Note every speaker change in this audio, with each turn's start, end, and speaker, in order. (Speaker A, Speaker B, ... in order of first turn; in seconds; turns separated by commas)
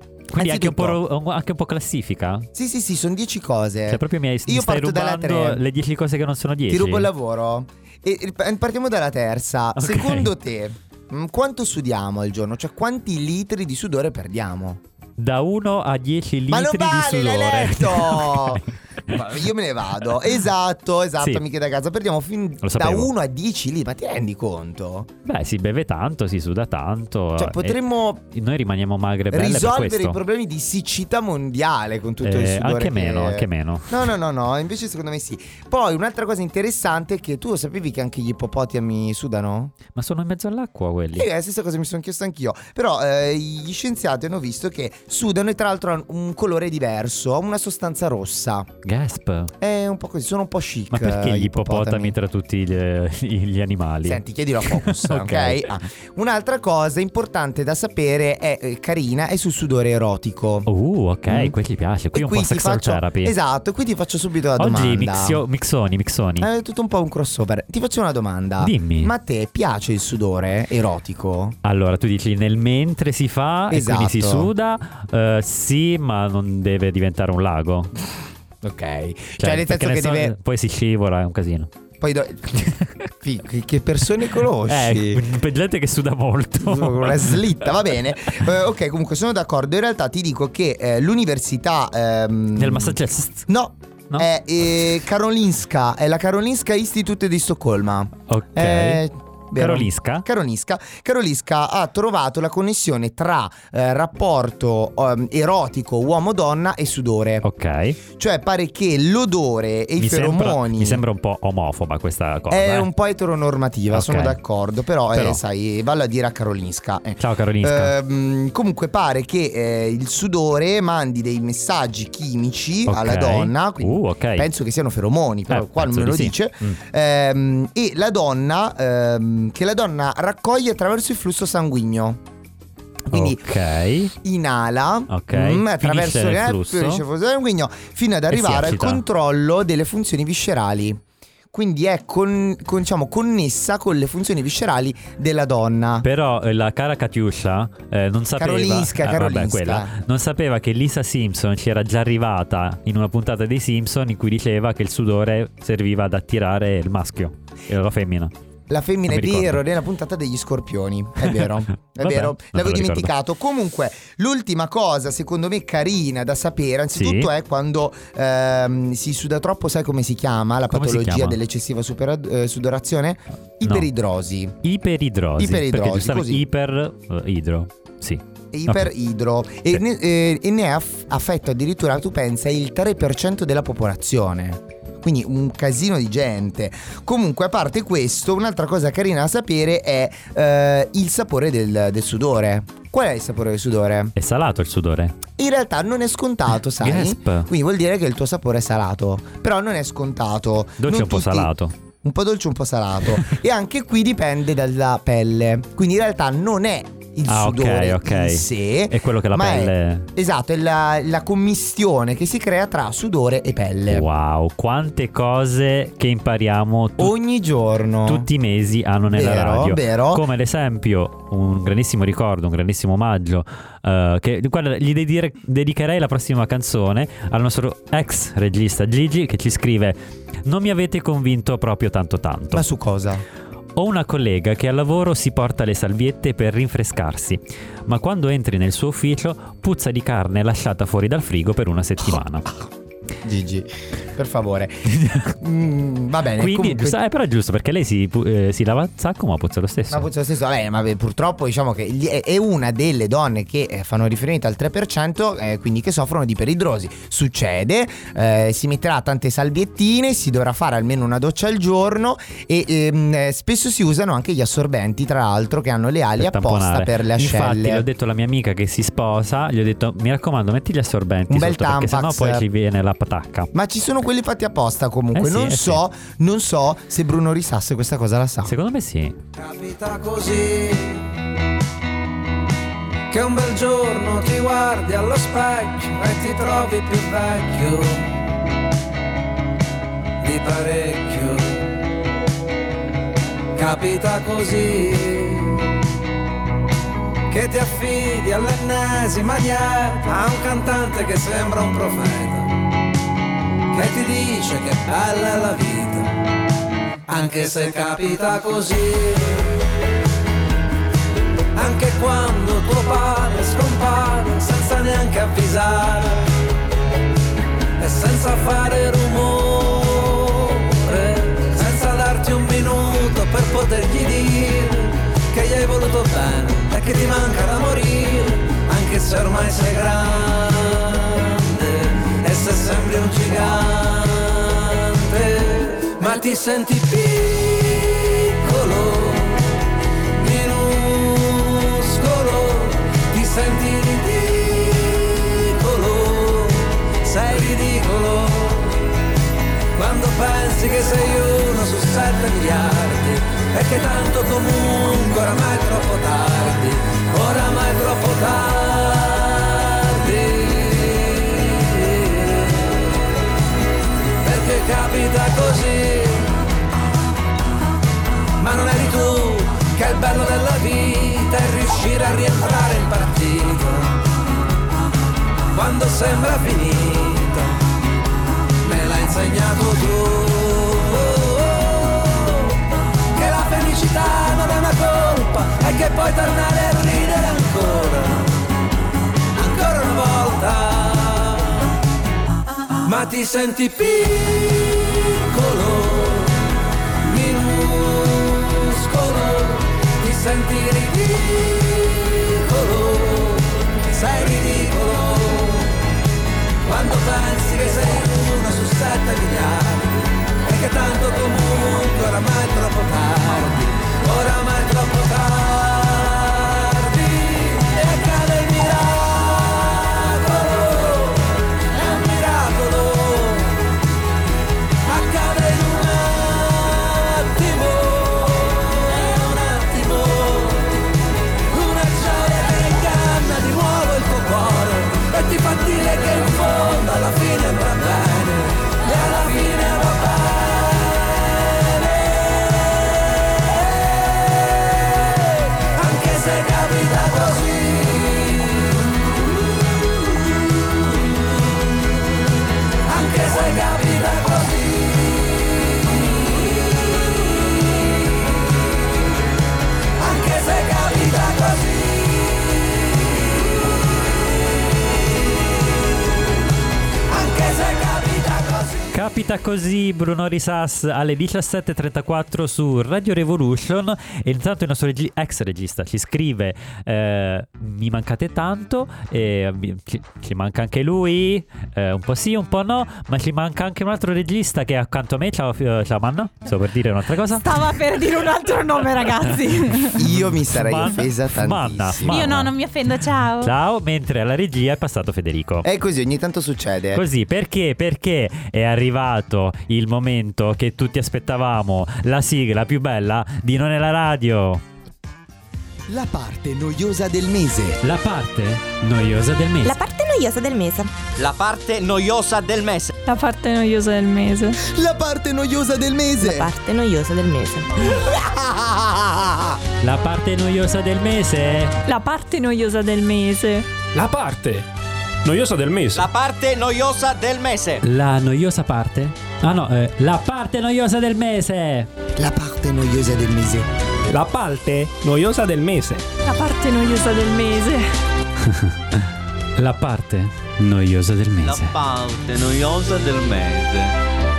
Speaker A: 0.3-2.5, Speaker B: 0.3-1.0, Speaker B: 2.5-5.6, Speaker A: 3.9-7.1, Speaker B: 6.7-14.8, Speaker A: 9.8-10.3, Speaker A: 15.2-19.3, Speaker B: 16.5-25.1, Speaker A: 22.6-23.1, Speaker A: 25.3-30.2, Speaker B: 27.4-28.2, Speaker B: 29.3-39.8, Speaker A: 32.2-34.0, Speaker A: 40.0-41.3, Speaker B: 41.1-48.7, Speaker A: 48.8-49.5, Speaker B: 49.6-52.2, Speaker A: 50.9-55.7, Speaker B: 54.0-60.7, Speaker A: 60.7-63.3, Speaker B: 61.3-61.6, Speaker B: 62.1-65.4, Speaker A: 64.6-66.5, Speaker B: 66.4-71.6, Speaker A: 68.6-69.1, Speaker A: 71.6-77.9, Speaker B: 73.7-74.5, Speaker B: 78.6-80.3, Speaker A: 79.4-81.7, Speaker B: 82.0-85.2, Speaker A: 82.6-82.9, Speaker A: 84.7-87.5, Speaker B: 86.6-107.5, Speaker A: 92.6-93.5, Speaker A: 98.3-99.0, Speaker A: 99.6-100.2, Speaker A: 107.4-108.0, Speaker B: 108.1-111.0, Speaker A: 110.0-112.9, Speaker B: 112.5-132.2, Speaker A: 113.9-114.4, Speaker A: 115.1-115.4, Speaker A: 117.2-118.0, Speaker A: 122.9-124.5, Speaker A: 125.5-126.8, Speaker B: 133.1-133.4, Speaker A: 133.1-134.1, Speaker B: 134.2-141.0, Speaker A: 135.1-137.0, Speaker A: 138.3-139.0, Speaker B: 141.5-146.1, Speaker A: 146.0-158.3, Speaker B: 148.4-149.9, Speaker B: 158.7-174.6, Speaker A: 159.1-159.6, Speaker A: 161.9-163.1, Speaker A: 166.9-167.3, Speaker A: 170.7-171.4, Speaker A: 173.6-173.9, Speaker A: 174.6-178.9, Speaker B: 175.4-176.4, Speaker B: 178.5-194.1, Speaker A: 194.2-195.2, Speaker B: 195.4-214.1, Speaker A: 196.8-197.5, Speaker A: 200.8-201.7, Speaker A: 207.3-210.1, Speaker A: 213.9-217.2, Speaker B: 217.0-218.3, Speaker A: 218.1-232.7, Speaker B: 219.1-220.3, Speaker B: 232.5-233.2, Speaker A: 233.8-242.5, Speaker B: 243.2-247.0, Speaker A: 244.9-245.3, Speaker A: 246.4-250.1, Speaker B: 249.9-267.9, Speaker A: 266.2-273.5, Speaker B: 271.3-272.4, Speaker B: 273.5-278.6, Speaker A: 275.1-275.8, Speaker A: 278.4-279.2, Speaker C: 279.4-281.0, Speaker C: 283.1-288.1, Speaker C: 290.2-291.6, Speaker C: 293.6-295.6, Speaker C: 297.3-302.6, Speaker C: 303.7-306.1, Speaker C: 307.1-309.5, Speaker C: 311.6-316.3, Speaker C: 317.8-339.5, Speaker C: 340.1-348.8, Speaker C: 349.8-362.7, Speaker C: 364.2-366.3, Speaker C: 368.4-374.0, Speaker C: 375.5-377.6, Speaker C: 378.6-382.5, Speaker C: 383.1-388.4, Speaker C: 389.4-391.5, Speaker C: 392.9-396.4, Speaker C: 397.0-405.7, Speaker C: 406.6-423.6, Speaker C: 424.9-430.8, Speaker C: 431.5-444.8, Speaker C: 445.7-448.6, Speaker C: 452.9-454.9, Speaker C: 460.0-462.6, Speaker C: 467.1-468.8, Speaker A: 468.9-487.5, Speaker D: 487.4-490.0, Speaker B: 490.0-492.3, Speaker A: 490.1-492.5, Speaker D: 492.1-493.5, Speaker A: 493.4-495.7, Speaker B: 495.6-497.0, Speaker A: 496.9-504.6, Speaker B: 505.9-507.8, Speaker A: 507.8-509.7, Speaker E: 509.6-510.9, Speaker F: 511.2-512.9, Speaker G: 513.1-514.6, Speaker B: 514.6-516.5, Speaker E: 516.2-517.7, Speaker B: 517.8-519.6, Speaker A: 519.8-521.8, Speaker G: 521.9-523.7, Speaker H: 523.9-524.6, Speaker H: 525.2-526.0, Speaker F: 525.9-527.8, Speaker A: 527.8-531.9, Speaker B: 532.2-533.7, Speaker H: 534.1-536.0, Speaker G: 536.2-537.9, Speaker A: 538.4-539.0, Speaker A: 539.6-541.8, Speaker F: 541.4-543.9